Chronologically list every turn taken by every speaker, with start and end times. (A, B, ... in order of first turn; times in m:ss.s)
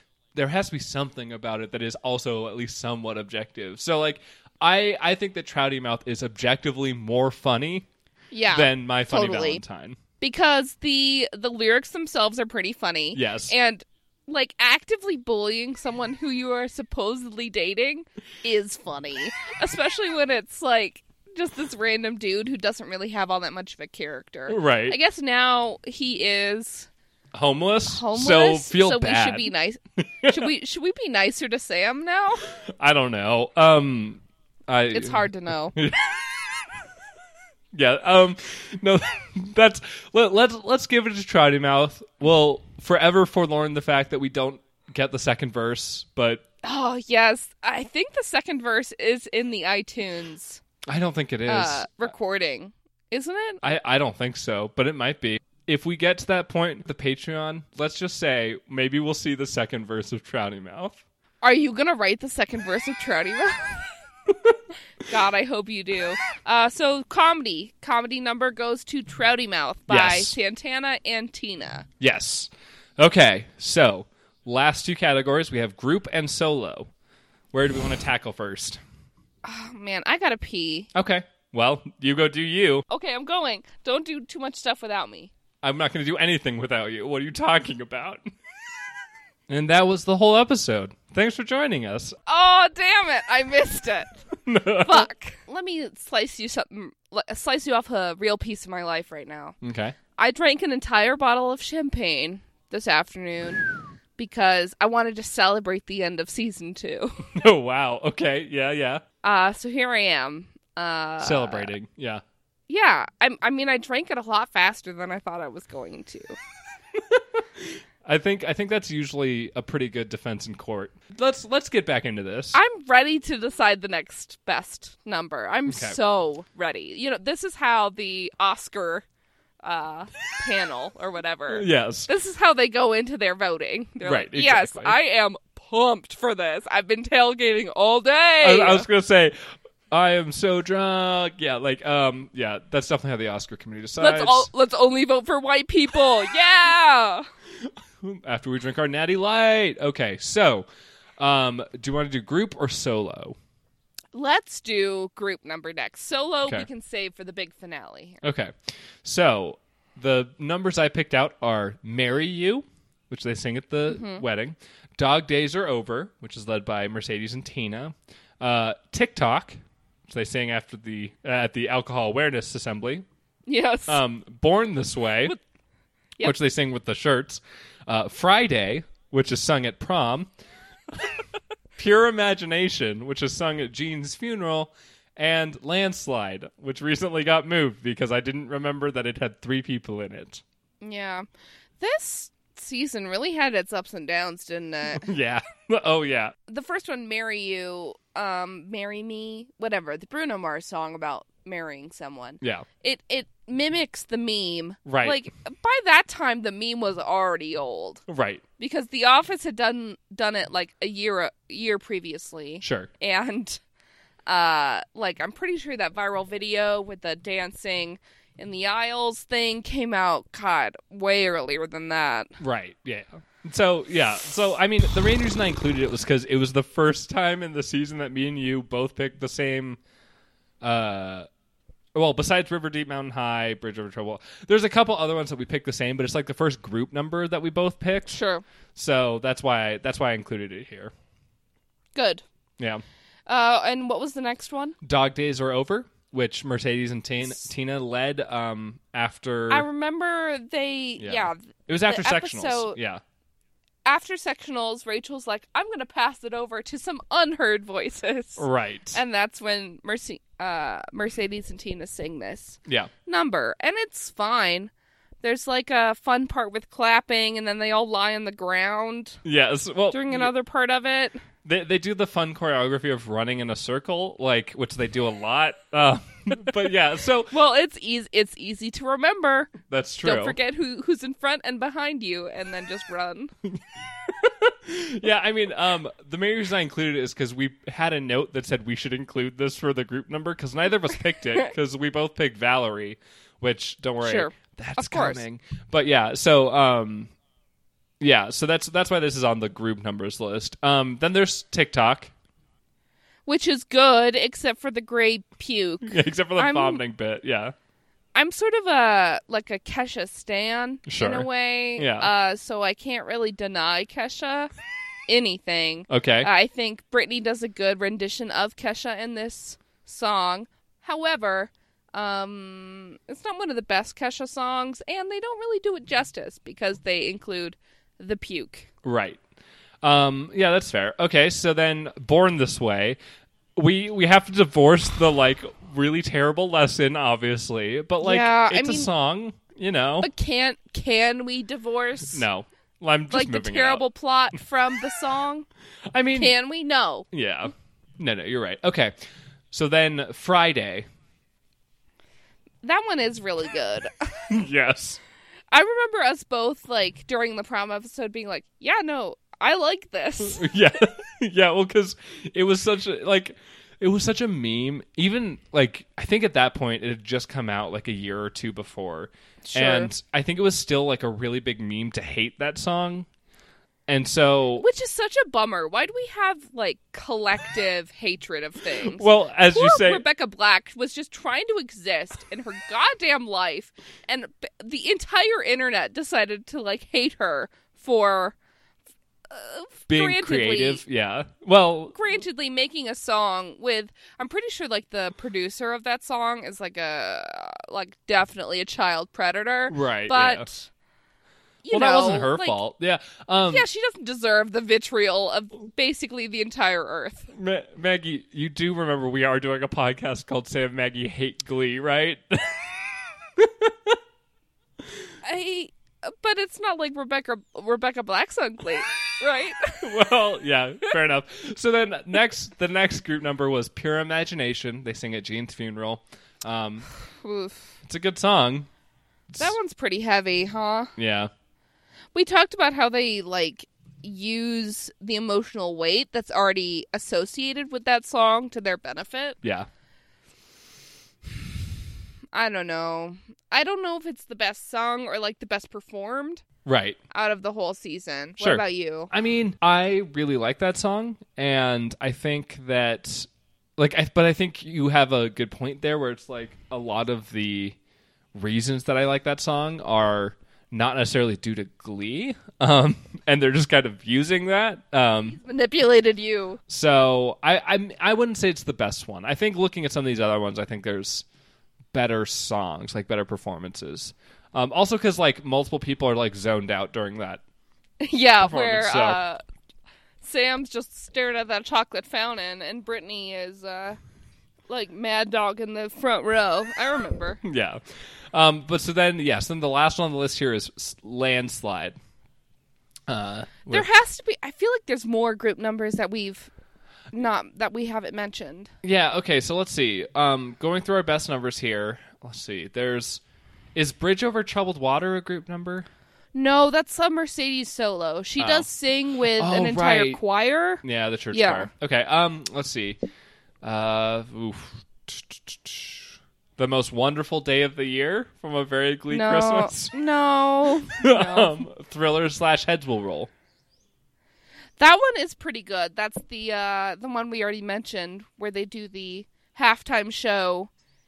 0:00.4-0:07.9 A
0:08.3-0:09.6 B
0:08.5-0:10.0 A
0:10.2-0:26.9 B
0:13.1-0:13.5 A
0:24.5-0:25.0 A
0:27.3-0:29.5 A
0:27.9-0:32.5 B
0:30.2-0:30.5 A
0:32.7-0:36.7 A
0:34.9-0:35.8 B
0:37.7-0:46.4 A
0:46.6-0:50.6 B
0:50.9-0:51.9 A
0:51.5-0:53.6 B
0:53.6-1:01.0 A
1:01.4-1:03.8 B
1:05.0-1:11.9 B
1:09.9-1:10.4 A
1:12.0-1:16.9 A
1:17.5-1:18.8 A
1:19.4-1:20.9 B
1:20.9-1:22.9 A
1:22.9-1:25.3 B
1:25.6-1:28.2 A
1:29.5-1:32.2 A
1:32.3-1:34.1 B
1:34.5-1:35.1 A
1:34.8-1:39.6 B
1:39.6-1:40.0 A
1:40.2-1:43.6 B
1:44.2-1:47.3 B
1:47.3-1:49.0 A
1:49.2-1:51.7 B
1:51.2-1:52.2 A
1:52.7-1:56.4 B
1:57.0-2:02.6 A
2:02.5-2:09.0 B
2:05.7-2:06.0 A
2:09.6-2:18.9 B
2:11.5-2:12.1 A
2:14.0-2:15.0 A
2:18.4-2:19.4 A
2:19.9-2:24.5 A
2:24.0-2:27.3 B
2:27.7-2:30.6 A
2:31.2-2:33.4 A
2:34.1-2:38.2 B
2:38.2-2:53.0 A
2:43.9-2:44.2 B
2:53.5-2:54.0 B
2:53.9-2:55.4 A
2:56.2-3:00.3 A
3:01.8-3:10.4 A
3:10.8-3:11.3 B
3:11.8-3:15.1 B
3:14.9-3:16.4 A
3:16.5-3:28.0 B
3:22.4-3:22.7 A
3:24.9-3:25.2 A
3:28.1-3:28.4 A
3:28.6-3:33.6 B
3:32.6-3:32.9 A
3:34.3-3:42.3 B
3:42.4-3:49.8 A
3:50.6-3:51.3 A
3:52.0-3:58.2 A
3:58.1-3:58.4 B
3:58.8-4:00.9 A
4:02.0-4:02.2 B
4:03.3-4:04.8 B
4:04.8-4:09.7 A
4:09.5-4:12.8 B
4:11.0-4:13.0 A
4:13.9-4:24.7 B
4:18.4-4:19.0 A
4:22.7-4:22.9 A
4:25.2-4:29.2 B
4:29.2-4:30.3 A
4:29.9-4:31.2 B
4:31.4-4:37.3 A
4:37.3-4:43.3 B
4:39.7-4:40.4 A
4:44.1-4:57.1 A
4:54.0-4:55.2 B
4:58.0-5:02.1 A
5:03.3-5:06.8 B
5:05.8-5:07.5 A
5:08.2-5:14.5 B
5:10.9-5:12.1 A
5:15.1-5:28.7 B
5:15.9-5:16.3 A
5:28.8-5:29.2 A
5:29.8-5:33.0 A
5:33.6-5:40.1 A
5:38.0-5:38.9 B
5:40.0-5:42.2 B
5:42.1-5:43.8 A
5:43.1-5:45.5 B
5:45.9-5:46.4 A
5:46.2-5:47.1 B
5:47.1-5:48.9 A
5:49.5-5:50.8 A
5:52.6-5:54.1 B
5:54.3-5:55.0 A
5:55.5-6:00.5 B
6:00.2-6:13.1 A
6:09.4-6:09.9 B
6:13.9-6:14.7 A
6:14.6-6:28.4 B
6:18.8-6:20.0 A
6:29.3-6:30.8 B
6:29.9-6:32.0 A
6:31.9-6:40.7 B
6:39.7-6:40.5 A
6:41.6-6:42.6 B
6:41.7-6:43.6 A
6:43.4-6:47.3 B
6:47.3-6:54.0 A
6:55.2-6:59.9 B
6:59.8-7:06.9 A
7:07.2-7:07.7 B
7:07.9-7:08.7 A
7:09.4-7:10.9 B
7:11.0-7:11.3 A
7:12.1-7:19.4 B
7:19.4-7:19.7 A
7:22.3-7:26.4 B
7:26.6-7:27.0 A
7:27.1-7:29.1 B
7:28.4-7:37.8 A
7:38.3-7:45.4 A
7:45.3-7:46.6 B
7:46.7-7:51.2 A
7:51.9-7:57.4 A
7:58.0-7:59.4 B
7:58.4-7:59.2 A
8:00.2-8:04.0 B
8:04.7-8:07.4 B
8:07.4-8:07.8 A
8:08.3-8:12.0 A
8:13.1-8:13.9 A
8:13.7-8:16.5 B
8:17.1-8:18.7 B
8:18.8-8:23.2 A
8:23.8-8:25.9 A
8:26.3-8:31.7 B
8:28.4-8:28.7 A
8:29.3-8:30.2 A
8:30.8-8:33.0 A
8:33.6-8:39.9 A
8:39.1-8:41.6 B
8:40.8-8:43.3 A
8:44.8-8:50.7 B